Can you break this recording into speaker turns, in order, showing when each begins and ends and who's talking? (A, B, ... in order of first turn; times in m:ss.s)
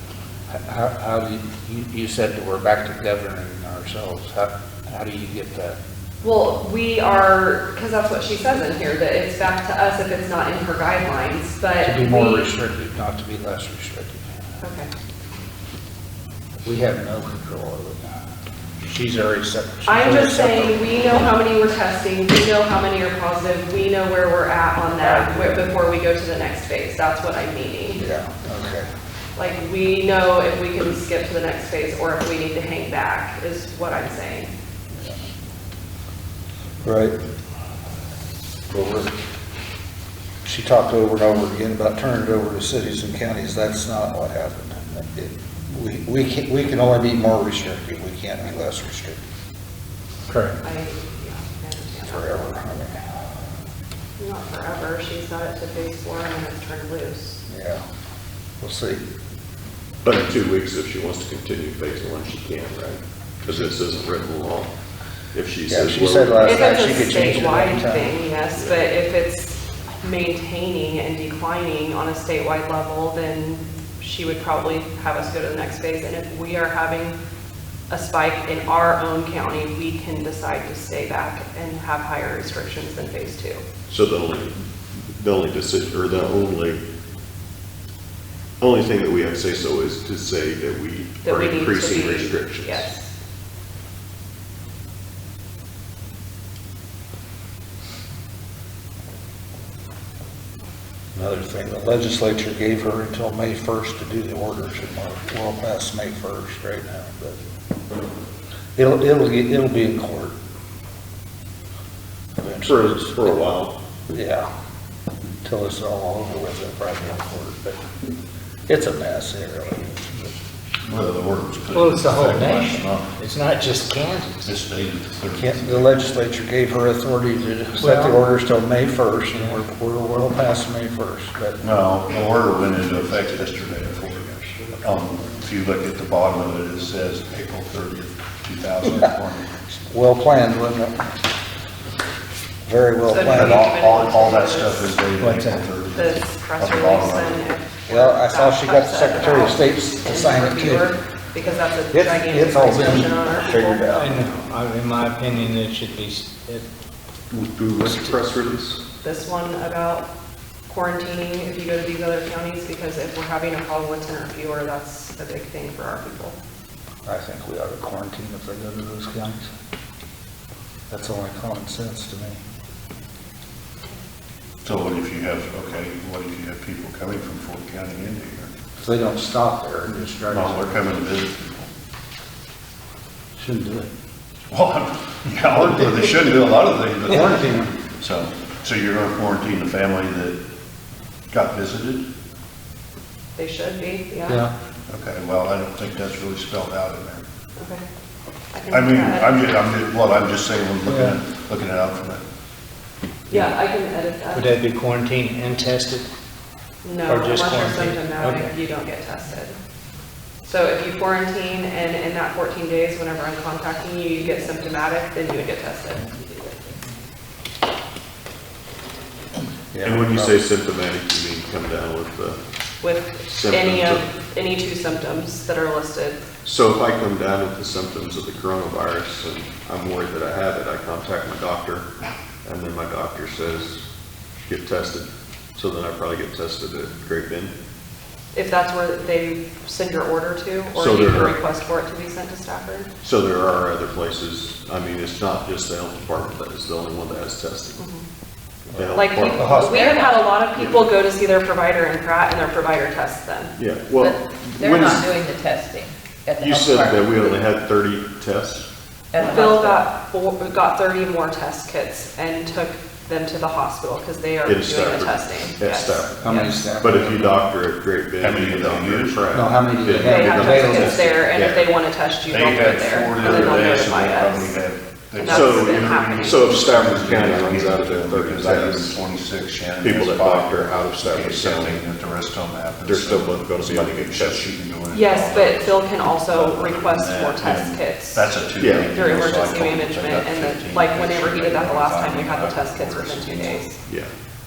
0:00.5-0:05.8 A
0:06.2-0:12.5 B
0:11.8-0:14.3 A
0:14.6-0:14.9 B
0:16.6-0:18.2 A
0:18.8-0:20.8 A
0:19.9-0:28.0 B
0:28.0-0:28.9 A
0:29.4-0:34.5 B
0:34.9-0:35.2 A
0:36.8-0:37.1 A
0:38.7-0:39.1 A
0:40.4-0:49.2 A
0:50.3-0:50.5 C
0:50.6-0:52.6 B
0:52.0-0:53.0 A
0:54.2-0:57.4 B
0:57.5-0:57.8 A
0:58.6-0:59.0 A
1:00.0-1:04.7 D
1:05.3-1:06.7 D
1:05.7-1:08.2 A
1:06.4-1:17.2 B
1:08.6-1:08.8 D
1:17.9-1:23.6 B
1:23.9-1:26.8 D
1:28.6-1:32.9 D
1:31.2-1:33.1 B
1:41.1-1:47.4 A
1:48.8-1:50.4 A
1:52.4-1:53.2 A
1:52.6-1:53.7 D
1:54.1-1:54.5 A
1:55.4-1:57.8 A
1:58.7-2:00.4 A
2:00.8-2:03.1 E
2:01.7-2:04.5 C
2:04.4-2:05.9 E
2:05.4-2:11.6 A
2:07.8-2:08.2 C
2:09.3-2:09.6 C
2:11.6-2:19.5 E
2:19.9-2:21.1 A
2:22.6-2:23.6 A
2:23.1-2:25.0 B
2:23.2-2:27.4 E
2:25.2-2:25.7 C
2:25.9-2:34.4 B
2:27.9-2:30.9 A
2:31.9-2:34.2 A
2:33.9-2:36.6 C
2:37.3-2:38.8 D
2:39.0-2:40.1 B
2:40.7-2:46.4 B
2:47.0-2:49.5 A
2:50.9-2:52.4 A
2:54.6-2:58.5 E
2:58.8-3:00.8 A
3:00.3-3:01.7 E
3:03.4-3:03.9 A
3:04.5-3:10.4 E
3:07.1-3:07.7 A
3:11.3-3:12.0 E
3:13.4-3:14.4 B
3:14.9-3:17.2 E
3:18.5-3:19.4 B
3:18.7-3:22.2 E
3:20.9-3:21.2 A
3:23.3-3:24.5 B
3:24.3-3:26.1 C
3:26.8-3:29.5 B
3:27.1-3:28.5 C
3:30.4-3:36.6 B
3:39.7-3:40.4 A
3:39.8-3:42.4 D
3:42.8-3:46.2 B
3:43.2-3:44.0 D
3:46.4-3:51.9 D
3:52.4-3:53.8 D
3:54.4-3:57.5 D
3:58.3-4:02.9 B
4:00.8-4:01.4 D
4:03.0-4:07.8 D
4:07.8-4:08.0 B
4:08.7-4:10.0 A
4:08.7-4:09.4 D
4:08.9-4:13.5 B
4:09.5-4:10.2 F
4:13.6-4:15.1 D
4:14.0-4:17.3 F
4:16.4-4:18.7 D
4:19.1-4:19.8 F
4:19.2-4:26.5 B
4:24.4-4:31.7 D
4:26.2-4:27.5 A
4:28.2-4:29.4 E
4:29.3-4:31.2 A
4:30.0-4:34.6 B
4:32.3-4:53.6 E
4:35.2-4:36.5 B
4:35.2-4:39.0 D
4:39.8-4:41.8 D
4:42.8-4:44.5 D
4:44.9-4:53.8 B
4:48.6-4:49.0 D
4:53.8-4:54.1 D